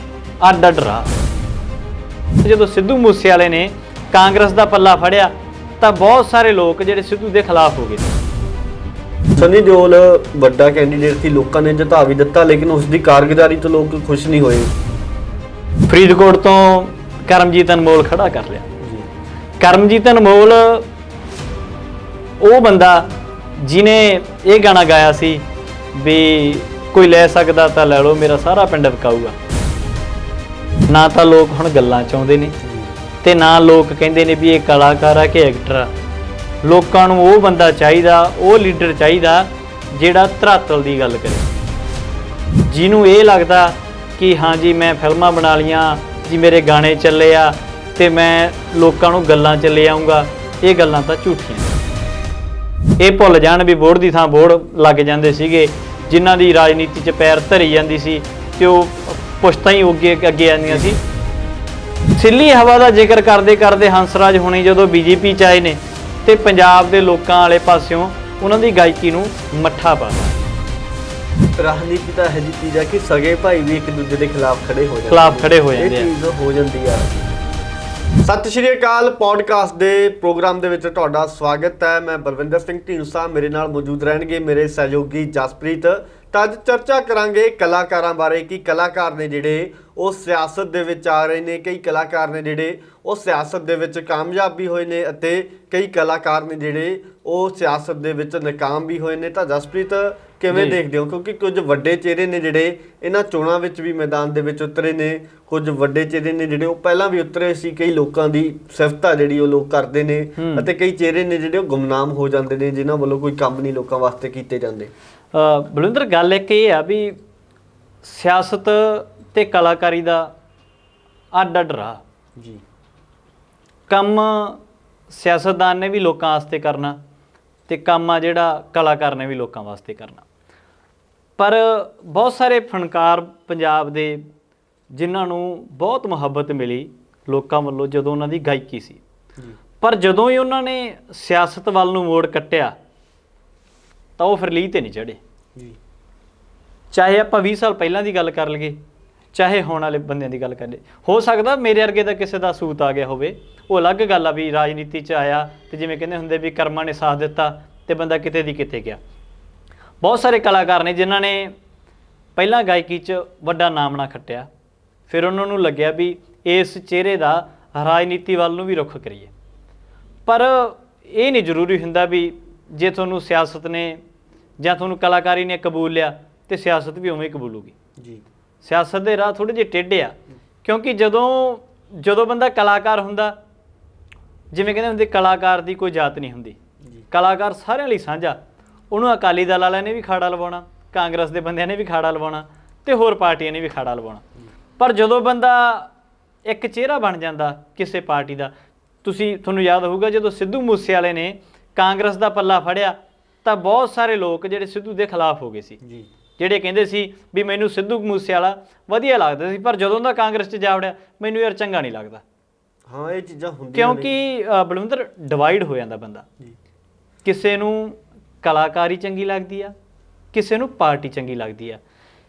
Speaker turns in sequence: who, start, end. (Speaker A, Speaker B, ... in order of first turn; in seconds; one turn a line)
Speaker A: 0.4-1.1
Speaker A: 2.4-8.2
Speaker B: 9.4-14.7
Speaker A: 15.9-18.7
Speaker B: 18.8-19.1
Speaker A: 19.6-20.9
Speaker A: 22.4-23.1
Speaker A: 23.6-25.4
Speaker A: 25.9-29.4
Speaker A: 30.9-32.6
Speaker B: 32.6-32.9
Speaker A: 33.2-35.9
Speaker A: 36.6-41.5
Speaker A: 42.6-51.7
Speaker A: 53.0-61.0
Speaker B: 60.7-60.9
Speaker A: 62.1-70.4
Speaker B: 71.6-77.2
Speaker A: 75.1-76.1
Speaker B: 78.2-114.9
Speaker A: 100.5-100.8
Speaker A: 110.4-110.7
Speaker A: 115.3-117.2
Speaker A: 118.0-120.3
Speaker A: 121.3-122.0
Speaker A: 123.9-127.0
Speaker A: 127.7-130.3
Speaker A: 131.4-134.3
Speaker A: 134.9-139.0
Speaker A: 139.8-142.8
Speaker A: 144.2-145.2
Speaker A: 146.9-148.8
Speaker A: 149.3-159.0
Speaker A: 160.0-161.6
Speaker A: 162.4-164.5
Speaker A: 165.1-169.3
Speaker A: 170.3-174.0
Speaker A: 174.6-177.7
Speaker B: 178.0-178.2
Speaker A: 178.6-183.3
Speaker A: 184.5-186.6
Speaker A: 187.1-188.4
Speaker A: 188.9-194.2
Speaker A: 194.8-195.9
Speaker A: 196.5-198.5
Speaker A: 199.0-205.8
Speaker B: 205.8-206.1
Speaker A: 206.4-212.2
Speaker B: 212.9-214.1
Speaker A: 213.8-216.3
Speaker A: 217.2-219.7
Speaker A: 220.3-221.8